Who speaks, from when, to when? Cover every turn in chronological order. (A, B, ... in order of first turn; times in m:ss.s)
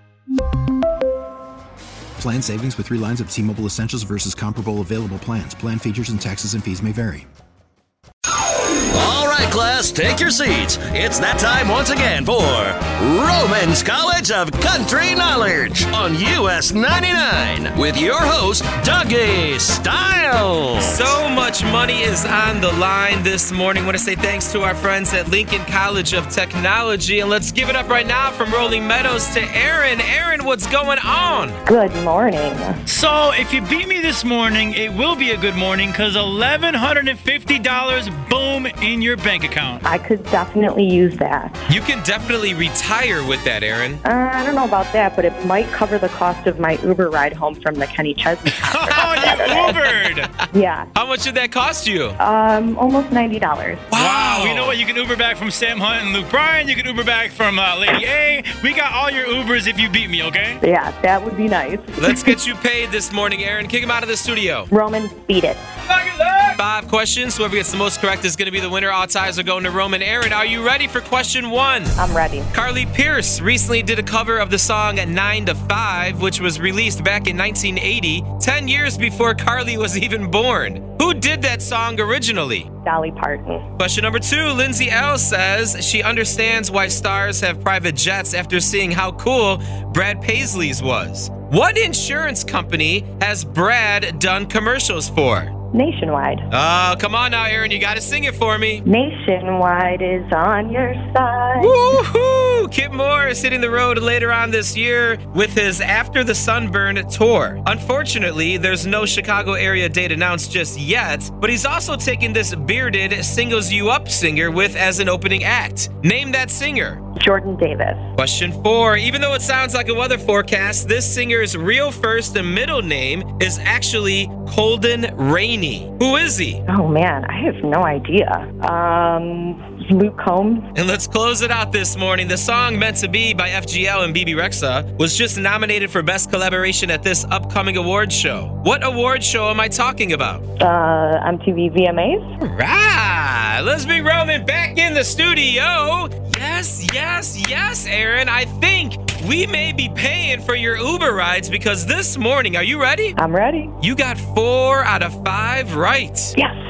0:02.2-0:07.3 A
0:08.9-0:21.2 B
0:20.8-0:31.6 C
0:31.7-0:32.8 D
0:32.9-0:39.8 E
0:39.8-0:41.6 D
0:41.7-0:44.0 C
0:44.0-0:49.8 D
0:48.5-0:50.3 E
0:49.1-0:50.4 C
0:50.5-0:50.9 D
0:50.9-0:52.2 C
0:52.2-0:53.9 D
0:53.9-0:54.8 C
0:53.9-1:00.6 E
1:00.6-1:02.4 D
1:02.0-1:04.7 C
1:04.7-1:05.6 D
1:05.9-1:06.6 E
1:06.6-1:12.0 C
1:12.0-1:12.5 D
1:12.5-1:22.7 C
1:22.8-1:23.7 D
1:23.8-1:35.5 C
1:35.7-1:36.5 D
1:36.5-1:38.8 C
1:38.8-1:41.8 D
1:41.6-1:57.0 C
1:57.2-1:58.0 D
1:58.2-2:06.6 C
2:06.7-2:10.7 D
2:10.8-2:20.4 C
2:20.6-2:22.3 D
2:22.4-2:33.2 C
2:33.2-2:33.8 D
2:33.8-2:36.4 C